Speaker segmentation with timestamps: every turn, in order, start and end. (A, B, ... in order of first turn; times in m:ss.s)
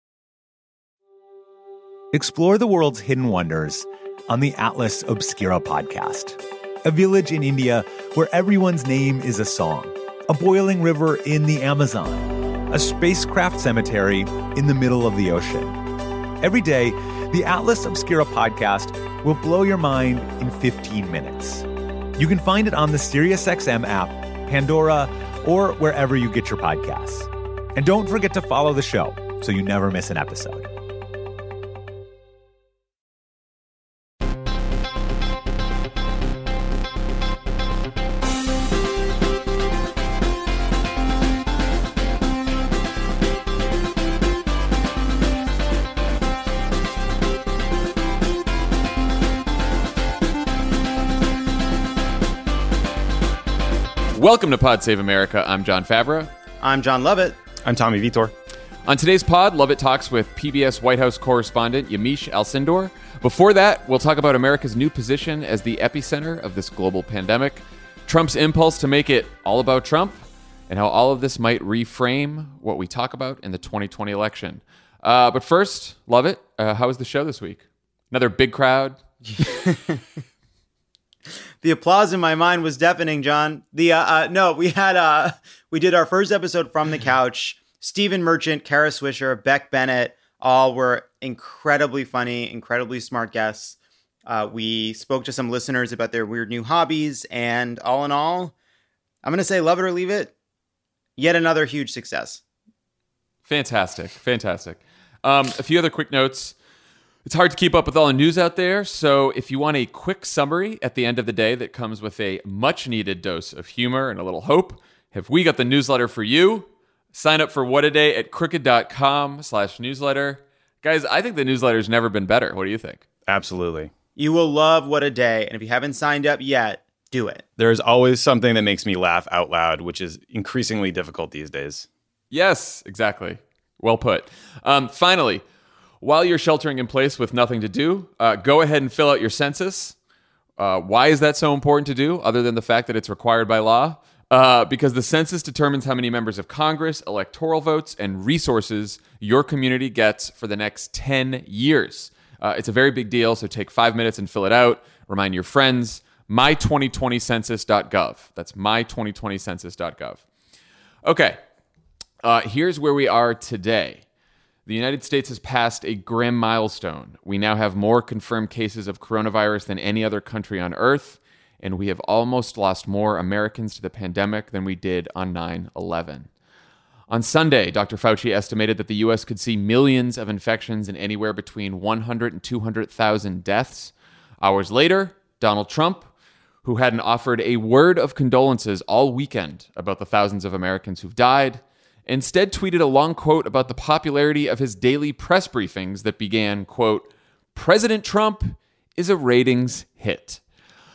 0:02.1-0:15.8 A
0:16.4-0:30.7 A
0:54.1-0:56.3 B
0:56.6-0:57.4 C
0:57.6-0:58.3 D
0:58.8-1:10.2 B
1:10.7-1:19.0 B
1:19.3-1:20.0 C
1:21.6-1:38.5 C
1:39.2-1:40.3 C
1:41.2-1:42.4 C
1:43.4-1:46.5 B
1:47.2-2:03.0 B
2:03.3-2:03.9 D
2:04.2-2:07.4 C
2:07.6-2:11.9 D
2:12.3-2:15.4 B
2:16.0-2:19.9 B
2:20.6-2:40.2 B
2:41.0-2:41.4 B
2:42.2-2:44.0 B
2:44.6-2:56.3 B
2:57.1-3:06.1 B
3:06.6-3:20.4 B